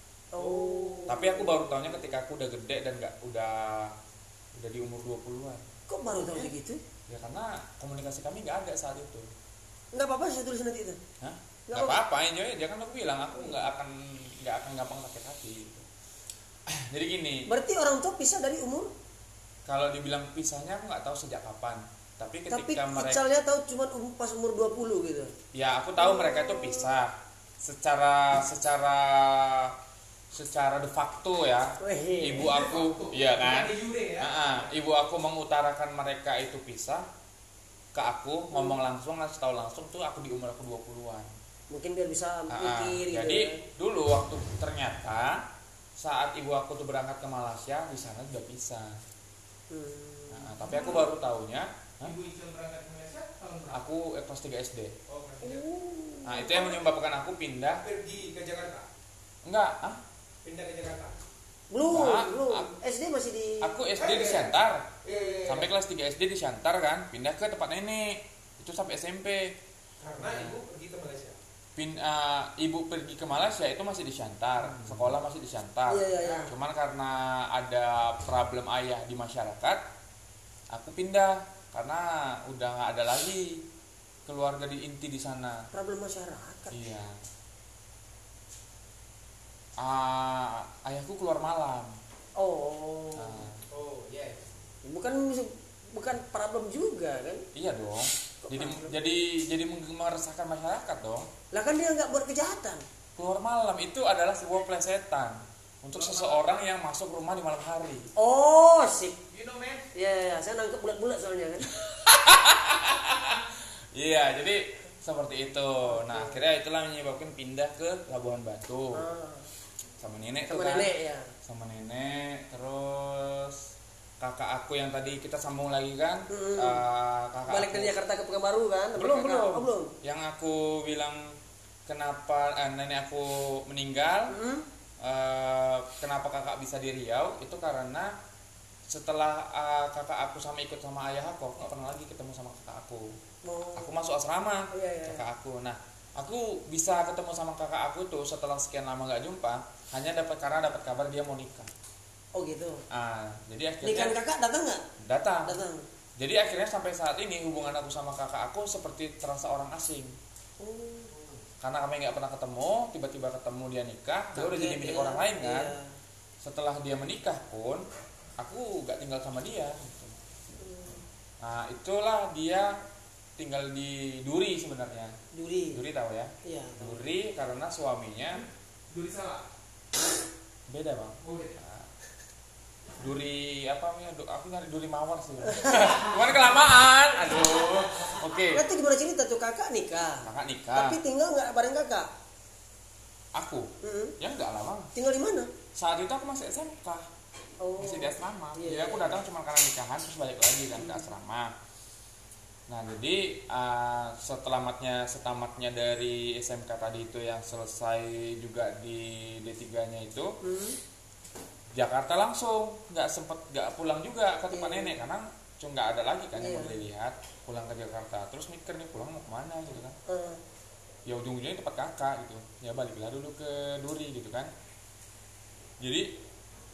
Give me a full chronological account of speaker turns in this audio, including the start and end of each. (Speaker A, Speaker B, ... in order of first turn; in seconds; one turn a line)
Speaker A: 0.3-1.7
Speaker B: 0.4-1.2
Speaker C: 1.1-4.0
Speaker C: 4.6-5.6
Speaker A: 5.9-6.8
Speaker C: 7.1-9.3
Speaker A: 9.9-11.0
Speaker C: 11.2-15.9
Speaker A: 11.7-12.0
Speaker C: 16.7-17.5
Speaker A: 17.5-18.9
Speaker C: 19.7-23.2
Speaker A: 22.5-25.3
Speaker C: 25.5-29.8
Speaker A: 26.0-26.9
Speaker C: 30.3-37.1
Speaker A: 31.8-32.6
Speaker B: 32.4-34.7
Speaker C: 37.9-41.3
Speaker A: 38.5-38.8
Speaker A: 41.7-43.6
Speaker C: 42.5-45.4
Speaker C: 46.0-49.0
Speaker A: 49.7-51.1
Speaker C: 50.3-52.1
Speaker B: 52.0-53.8
Speaker C: 53.7-55.0
Speaker B: 55.1-55.6
Speaker A: 55.4-56.8
Speaker C: 56.2-57.8
Speaker B: 57.8-58.9
Speaker C: 59.5-60.0
Speaker B: 60.5-61.2
Speaker A: 61.7-63.7
Speaker C: 61.8-62.7
Speaker C: 63.6-64.9
Speaker B: 64.0-65.7
Speaker C: 65.5-69.5
Speaker B: 70.0-71.4
Speaker C: 70.2-70.6
Speaker C: 71.8-79.8
Speaker B: 74.7-75.0
Speaker A: 75.9-76.5
Speaker C: 80.7-83.7
Speaker C: 84.3-85.7
Speaker A: 85.7-86.8
Speaker C: 86.7-87.2
Speaker C: 89.8-92.0
Speaker A: 92.4-93.5
Speaker C: 93.2-93.6
Speaker B: 93.7-94.5
Speaker A: 94.8-97.5
Speaker C: 97.5-101.3
Speaker A: 98.5-98.9
Speaker A: 101.5-102.8
Speaker C: 103.2-108.1
Speaker B: 106.0-106.5
Speaker A: 108.2-109.2
Speaker B: 109.3-109.9
Speaker A: 109.9-111.7
Speaker C: 111.7-119.0
Speaker A: 115.9-116.4
Speaker A: 118.9-119.5
Speaker C: 120.0-120.9
Speaker A: 120.5-121.3
Speaker C: 121.4-123.6
Speaker C: 124.2-127.9
Speaker A: 126.3-126.8
Speaker A: 127.5-129.9
Speaker C: 129.0-131.3
Speaker C: 131.9-134.3
Speaker A: 134.3-134.7
Speaker C: 135.0-138.1
Speaker C: 138.9-143.2
Speaker A: 143.4-143.9
Speaker C: 143.8-151.7
Speaker A: 144.7-145.2
Speaker A: 152.3-152.8
Speaker C: 152.9-154.2
Speaker A: 153.8-154.8
Speaker C: 155.0-155.6
Speaker A: 155.4-155.9
Speaker C: 156.2-160.2
Speaker A: 160.6-161.1
Speaker C: 161.6-165.7
Speaker A: 164.3-165.9
Speaker C: 166.4-167.8
Speaker C: 168.4-170.2
Speaker A: 170.6-171.0
Speaker C: 171.4-172.8
Speaker C: 173.4-175.2
Speaker A: 175.3-175.8
Speaker C: 175.7-178.4
Speaker A: 176.4-177.0
Speaker B: 178.9-179.4
Speaker C: 180.7-181.9
Speaker B: 181.2-181.6
Speaker C: 183.0-188.7
Speaker A: 185.5-186.1
Speaker A: 188.5-192.1
Speaker C: 190.2-191.0
Speaker C: 193.3-194.9
Speaker A: 193.8-194.2
Speaker A: 194.9-195.5
Speaker C: 195.7-197.1
Speaker A: 197.6-199.2
Speaker C: 197.8-201.5
Speaker A: 200.8-201.1
Speaker C: 202.7-210.4
Speaker A: 210.4-210.8
Speaker C: 211.7-220.0
Speaker A: 214.5-215.0
Speaker A: 216.4-216.8
Speaker A: 220.1-220.4
Speaker C: 221.1-224.5
Speaker C: 225.8-226.1